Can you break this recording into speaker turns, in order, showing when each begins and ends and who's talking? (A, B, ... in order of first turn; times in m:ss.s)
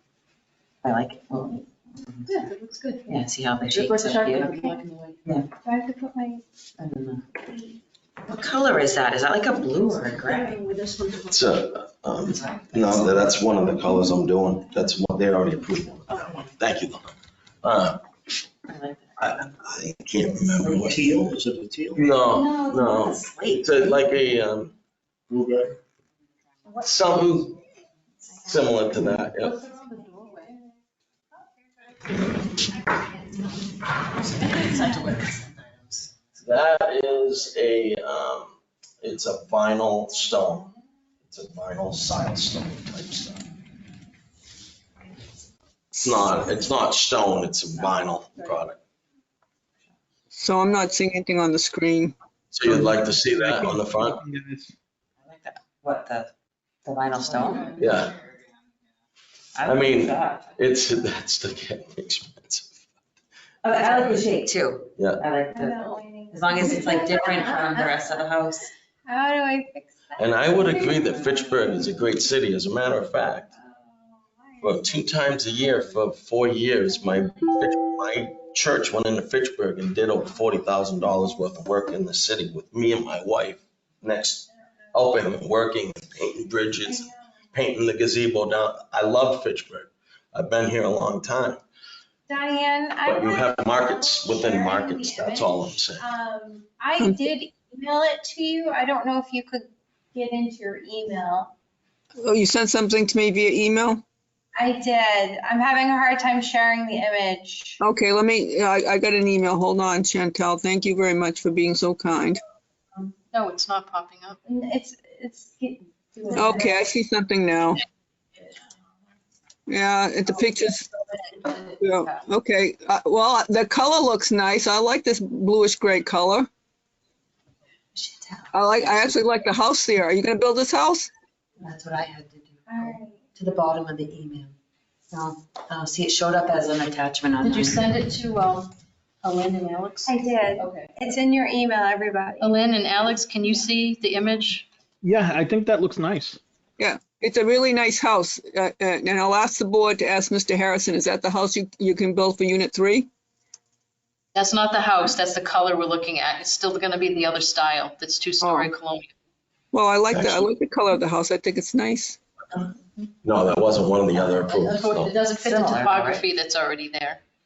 0:00.8-0:02.3 A
0:02.3-0:03.2 B
0:03.1-0:04.6 A
0:03.7-0:05.3 B
0:05.6-0:06.4 C
0:06.8-0:07.4 A
0:07.4-0:07.8 C
0:08.3-0:10.6 A
0:11.2-0:18.0 D
0:12.2-0:13.4 A
0:18.7-0:19.6 A
0:19.2-0:21.3 D
0:20.6-0:21.0 A
0:20.7-0:22.2 E
0:22.0-0:24.7 D
0:22.3-0:24.0 A
0:25.3-0:25.8 E
0:26.8-0:27.6 D
0:28.4-0:29.6 D
0:29.4-0:30.6 B
0:34.6-0:35.4 B
0:36.4-0:40.7 D
0:41.2-0:43.4 D
0:46.0-0:48.8 D
0:50.3-0:52.2 F
0:52.5-0:54.2 D
0:53.4-0:54.7 G
0:55.2-0:56.3 A
0:56.8-0:57.9 A
0:57.4-0:57.8 B
0:57.8-0:58.1 D
0:59.6-1:00.5 A
0:59.6-1:02.8 D
1:03.6-1:08.7 A
1:05.0-1:05.2 D
1:05.5-1:08.0 C
1:09.0-1:11.1 C
1:10.2-1:13.5 D
1:13.5-1:14.6 C
1:14.6-1:31.6 D
1:32.3-1:41.5 C
1:33.0-1:36.1 D
1:42.2-1:44.0 F
1:44.5-1:47.8 C
1:47.8-1:52.4 F
1:53.3-1:54.4 B
1:54.4-1:56.8 C
1:56.4-1:57.8 F
1:59.7-2:00.9 F
2:01.4-2:02.2 B
2:01.8-2:06.5 F
2:08.0-2:09.1 A
2:08.5-2:11.1 F
2:11.6-2:14.6 A
2:12.7-2:13.3 C
2:15.1-2:17.8 A
2:17.4-2:18.7 B
2:19.2-2:20.9 B
2:20.1-2:22.5 C
2:22.4-2:24.7 B
2:25.0-2:26.4 G
2:26.8-2:33.1 F
2:34.4-2:39.1 B
2:38.4-2:38.7 F
2:39.7-2:42.2 F
2:40.1-2:40.5 D
2:43.2-2:45.2 D
2:44.1-2:44.4 A
2:44.5-2:47.2 B
2:45.3-2:46.3 A